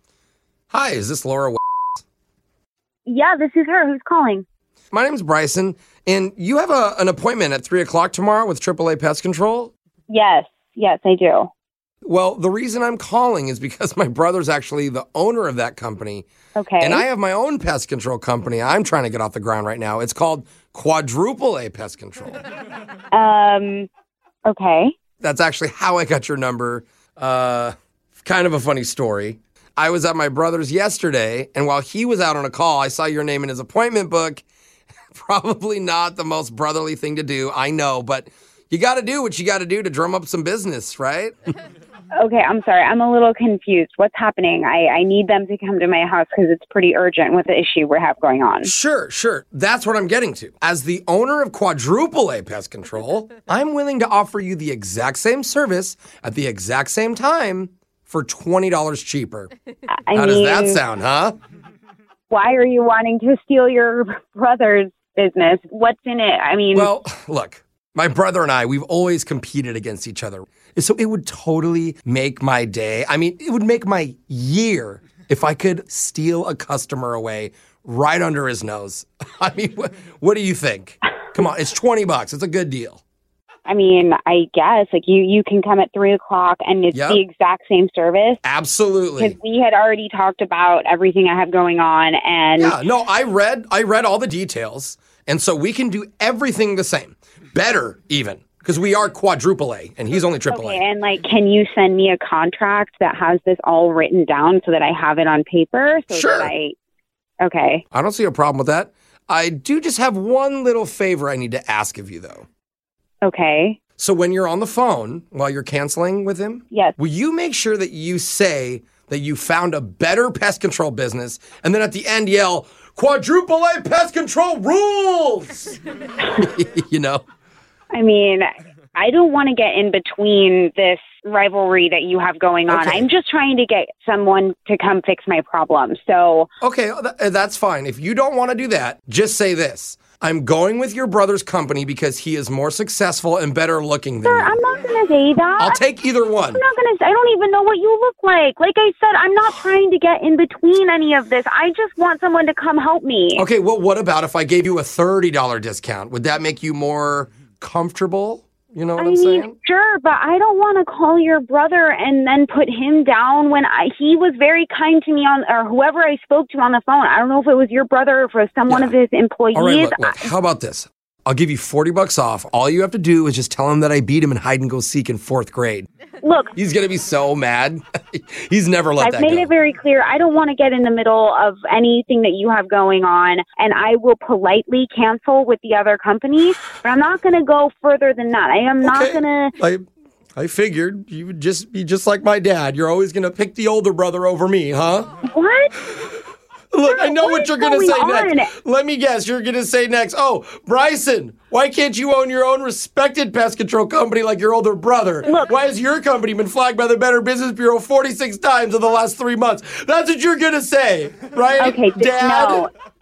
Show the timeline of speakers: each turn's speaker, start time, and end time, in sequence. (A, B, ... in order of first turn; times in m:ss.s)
0:00.7-0:01.6 A
0:03.1-0:04.4 B
0:04.9-0:09.7 A
0:10.1-0:11.5 B
0:12.0-0:16.3 A
0:16.6-0:17.0 B
0:16.8-0:22.4 A
0:23.1-0:23.9 B
0:24.4-0:25.0 B
0:25.2-0:34.4 A
0:35.1-0:41.3 A
0:42.2-0:48.7 B
0:48.6-0:59.5 A
1:00.0-1:00.8 B
1:00.2-1:01.4 A
1:02.3-1:06.9 B
1:06.7-1:23.0 A
1:23.7-1:28.4 B
1:26.9-1:27.2 A
1:28.4-1:29.4 A
1:29.2-1:32.8 B
1:32.6-1:40.8 A
1:40.5-1:46.8 B
1:46.1-1:46.5 A
1:47.4-1:47.8 B
1:47.9-1:52.5 A
1:53.2-1:53.8 B
1:54.0-2:05.8 A
2:06.4-2:07.2 A
2:07.9-2:16.5 B
2:12.7-2:13.1 A
2:16.6-2:24.6 A
2:24.2-2:25.8 B
2:25.6-2:26.6 A
2:26.5-2:33.4 B
2:33.4-2:39.6 A
2:39.0-2:50.3 B
2:48.7-2:49.0 A
2:49.6-2:55.9 A
2:56.2-2:56.5 B
2:56.6-2:59.5 A
2:59.0-3:09.5 B
3:08.8-3:09.8 A
3:10.4-3:15.1 A
3:15.3-3:15.7 B
3:16.7-3:32.7 A
3:16.9-3:18.5 B
3:25.3-3:25.5 B
3:31.6-3:32.7 B